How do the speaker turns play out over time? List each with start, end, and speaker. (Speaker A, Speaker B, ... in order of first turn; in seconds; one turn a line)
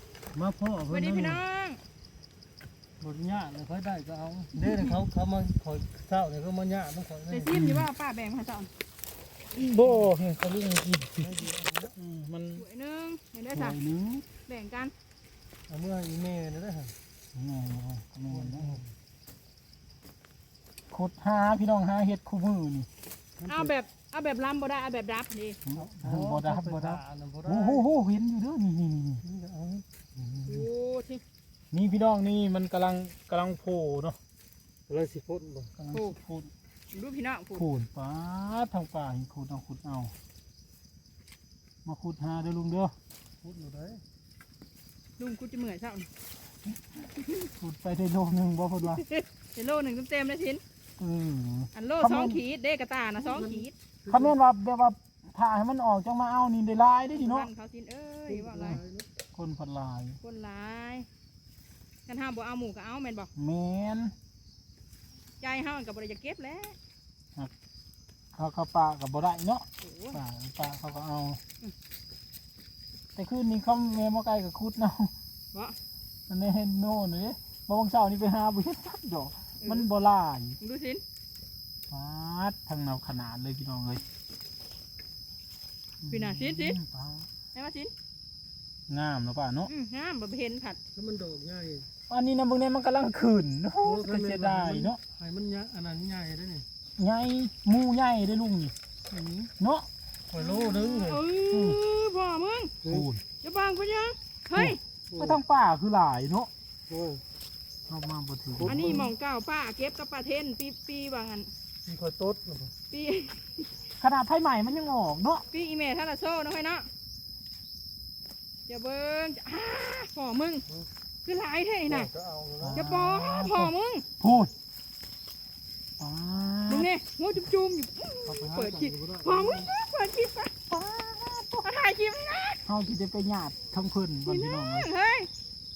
Speaker A: 0.3-1.4
Speaker B: 0.9-1.8
Speaker A: 3.0-7.6
Speaker B: 4.6-5.0
Speaker B: 7.3-8.7
Speaker C: 7.5-7.9
Speaker C: 9.5-11.3
Speaker A: 11.2-11.9
Speaker C: 11.9-12.6
Speaker B: 12.6-13.8
Speaker C: 13.5-14.2
Speaker B: 14.5-14.9
Speaker A: 15.7-16.9
Speaker C: 17.4-18.8
Speaker A: 18.3-18.9
Speaker C: 20.9-22.9
Speaker A: 23.4-23.7
Speaker B: 23.5-25.6
Speaker C: 25.7-29.2
Speaker A: 25.8-27.9
Speaker A: 29.2-29.9
Speaker C: 30.2-30.7
Speaker B: 30.5-31.2
Speaker C: 31.7-34.2
Speaker A: 34.9-35.7
Speaker C: 35.8-36.5
Speaker B: 36.9-37.6
Speaker C: 37.5-40.1
Speaker C: 41.9-42.9
Speaker A: 43.4-44.0
Speaker B: 45.2-46.1
Speaker B: 47.2-47.5
Speaker C: 47.6-49.0
Speaker B: 48.9-50.6
Speaker C: 51.0-52.4
Speaker B: 51.7-53.7
Speaker A: 53.2-54.4
Speaker C: 54.1-57.5
Speaker B: 57.1-58.8
Speaker A: 58.3-59.1
Speaker C: 59.3-60.2
Speaker B: 60.2-61.1
Speaker B: 62.1-63.3
Speaker C: 63.4-64.1
Speaker B: 65.4-66.8
Speaker C: 68.3-71.4
Speaker B: 69.8-70.2
Speaker C: 73.2-75.1
Speaker C: 76.3-80.6
Speaker B: 80.6-81.0
Speaker C: 81.9-84.0
Speaker C: 86.0-87.3
Speaker B: 86.1-86.8
Speaker B: 87.5-87.9
Speaker C: 88.9-89.7
Speaker B: 89.7-90.8
Speaker A: 90.9-91.9
Speaker C: 92.1-95.0
Speaker A: 93.8-96.7
Speaker C: 97.0-98.7
Speaker A: 99.1-99.5
Speaker C: 99.6-99.9
Speaker A: 100.3-101.3
Speaker B: 100.4-102.8
Speaker C: 101.5-101.8
Speaker A: 102.8-103.1
Speaker C: 102.9-103.2
Speaker B: 103.4-104.8
Speaker C: 104.5-106.5
Speaker A: 105.1-105.4
Speaker A: 106.9-107.2
Speaker C: 107.9-109.0
Speaker A: 108.5-109.1
Speaker B: 108.7-111.5
Speaker A: 111.8-112.7
Speaker B: 112.9-113.7
Speaker C: 114.0-115.4
Speaker B: 115.5-116.9
Speaker B: 118.7-120.7
Speaker B: 121.2-122.1
Speaker A: 121.9-122.9
Speaker C: 122.6-124.5
Speaker B: 122.7-124.1
Speaker C: 126.0-126.9
Speaker B: 126.7-130.5
Speaker A: 128.2-129.7
Speaker C: 130.7-131.7
Speaker B: 131.6-132.6
Speaker C: 132.7-134.9
Speaker B: 134.3-135.3